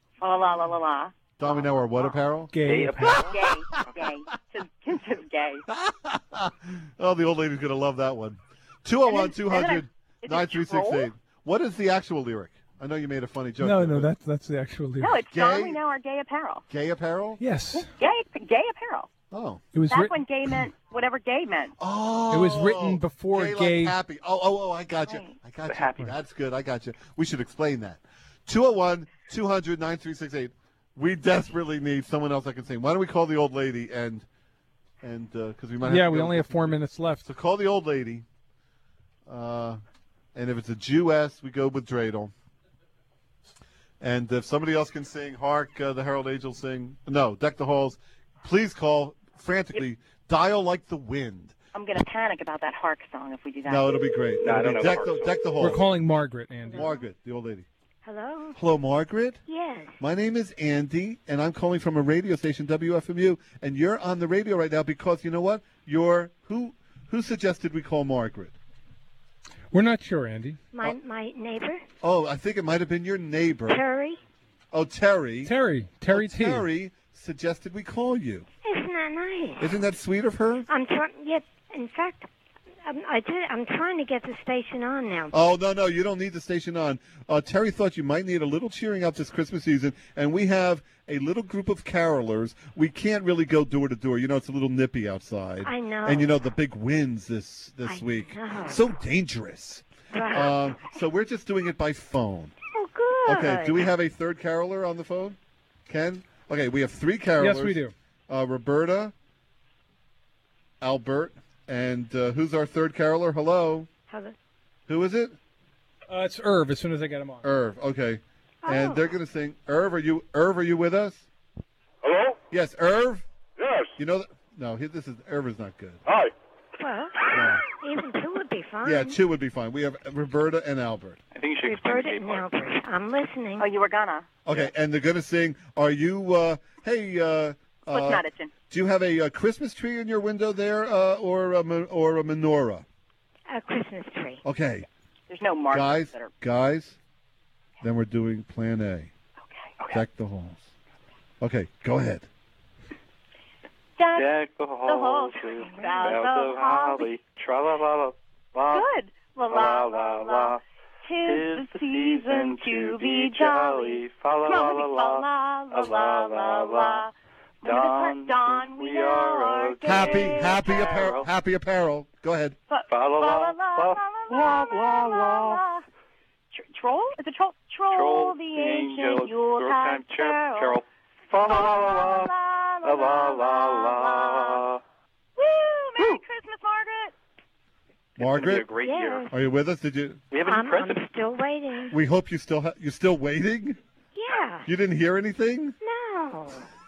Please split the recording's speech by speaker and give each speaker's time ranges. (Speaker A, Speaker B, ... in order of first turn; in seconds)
Speaker A: 0.2-2.0, 3.0-5.6, 9.1-11.1, 15.0-16.6, 17.9-19.1, 19.9-21.7, 25.1-25.4, 51.7-54.0, 133.6-134.3, 137.9-138.5, 145.3-146.3, 154.0-157.1, 158.7-171.1, 172.7-175.8, 176.5-180.8, 181.3-184.7, 185.4-187.1
Speaker B: 1.4-2.5, 3.0-3.8, 5.7-14.1, 15.3-15.8, 16.7-17.4, 19.3-19.6, 21.8-34.3, 35.0-38.3, 39.3-39.8, 40.3-42.3, 44.0-51.6, 53.6-55.9, 56.7-57.7, 58.5-59.4, 60.0-68.5, 72.0-73.8, 74.7-75.5, 76.1-78.5, 79.6-80.7, 85.3-102.5, 103.2-109.1, 110.8-113.9, 114.9-115.4, 117.4-121.3, 122.5-123.2, 124.0-126.0, 127.3-127.6, 128.8-131.2, 134.4-142.9, 144.4-144.9, 145.7-147.0, 147.8-149.1, 149.9-150.6, 151.4-152.3, 169.8-172.6, 188.2-188.7, 189.3-190.2, 191.9-193.8, 194.7-195.8
Speaker C: 2.5-3.2, 13.6-15.2, 17.4-17.9, 19.7-20.2, 22.3-23.9, 35.8-37.2, 55.6-56.9, 69.7-70.6, 75.5-76.7, 107.4-107.9, 116.1-117.5
Speaker D: 2.6-3.5, 25.7-26.2, 54.4-55.3, 131.3-132.5, 154.1-158.9, 159.5-160.6, 161.2-167.1, 167.6-171.3, 172.9-175.6, 177.9-182.3, 182.8-184.8, 188.2-189.3, 190.3-191.0
Speaker E: 56.7-57.0, 58.0-58.6, 59.5-60.0, 70.7-71.8, 73.7-74.2, 78.6-79.8, 80.7-82.3, 82.8-85.3, 95.6-96.3, 97.8-98.9, 100.1-101.0, 102.7-103.9, 114.1-114.4, 118.6-119.1, 126.8-129.2, 131.6-133.7, 143.5-144.4, 155.6-156.1, 188.7-189.3, 190.4-191.9, 194.1-194.7, 195.8-196.7